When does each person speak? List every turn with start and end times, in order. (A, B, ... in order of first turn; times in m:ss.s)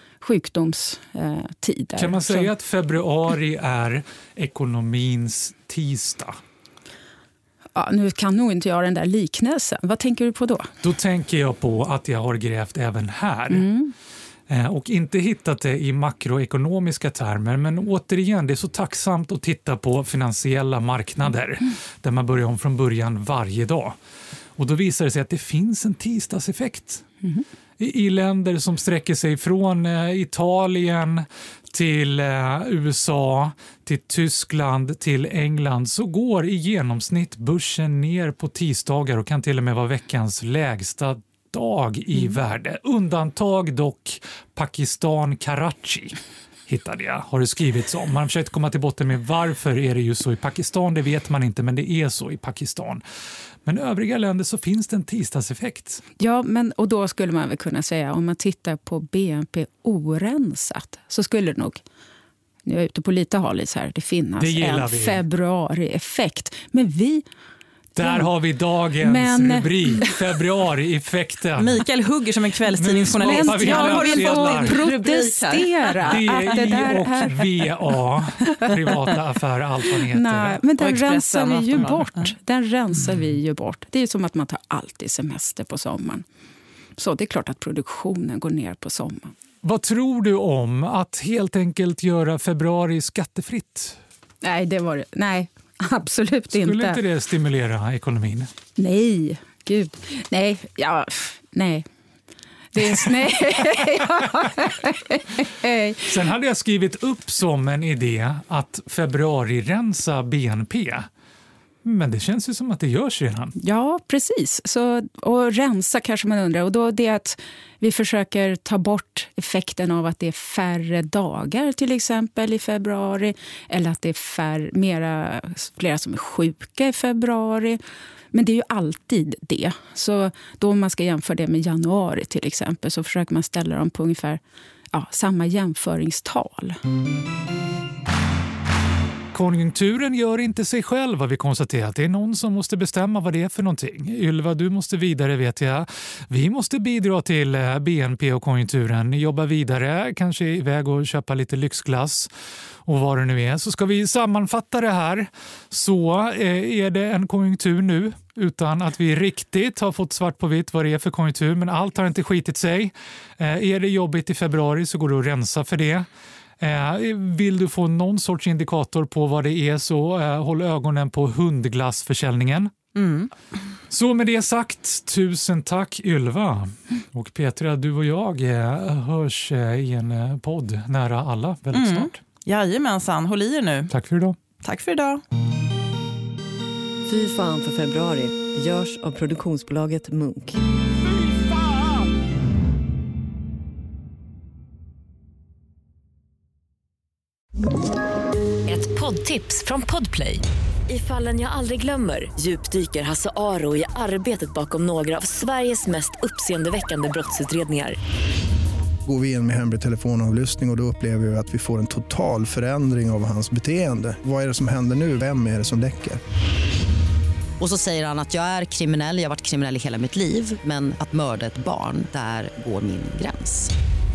0:00.2-0:02.5 A
0:02.0-0:06.4 B
0:07.7-0:10.7 A
0:10.8-0:13.7 B
0:13.5-0:13.9 A
0:14.5-0:24.0 B
0:24.6-0:27.0 B
0:27.8-0:46.2 B
0:46.7-0:53.0 B
0:53.6-0:56.0 B
0:56.2-1:01.8 A
1:02.6-1:07.2 A
1:04.4-1:05.2 B
1:08.0-1:11.7 B
1:08.0-1:08.3 A
1:09.0-1:10.1 A
1:11.6-1:16.9 C
1:12.8-1:14.8 B
1:13.2-1:17.5 A
1:16.0-1:20.6 B
1:20.1-1:26.2 A
1:20.8-1:22.3 C
1:27.0-1:29.3 A
1:29.6-1:34.0 B
1:34.4-1:37.0 A
1:36.5-1:38.5 B
1:38.8-1:41.8 A
1:42.7-1:46.1 A
1:46.0-1:51.1 B
1:51.8-1:53.5 B
1:53.6-2:07.8 A
2:08.3-2:14.4 A
2:14.9-2:16.8 A
2:19.3-2:32.3 B
2:32.8-2:46.0 B
2:46.6-2:52.7 B
2:52.9-2:53.3 C
2:53.9-3:02.2 B
3:01.7-3:03.9 C
3:03.9-3:04.4 B
3:04.6-3:05.2 C
3:07.1-3:10.5 D
3:18.7-3:28.0 E
3:29.1-3:36.2 F
3:37.6-3:43.7 G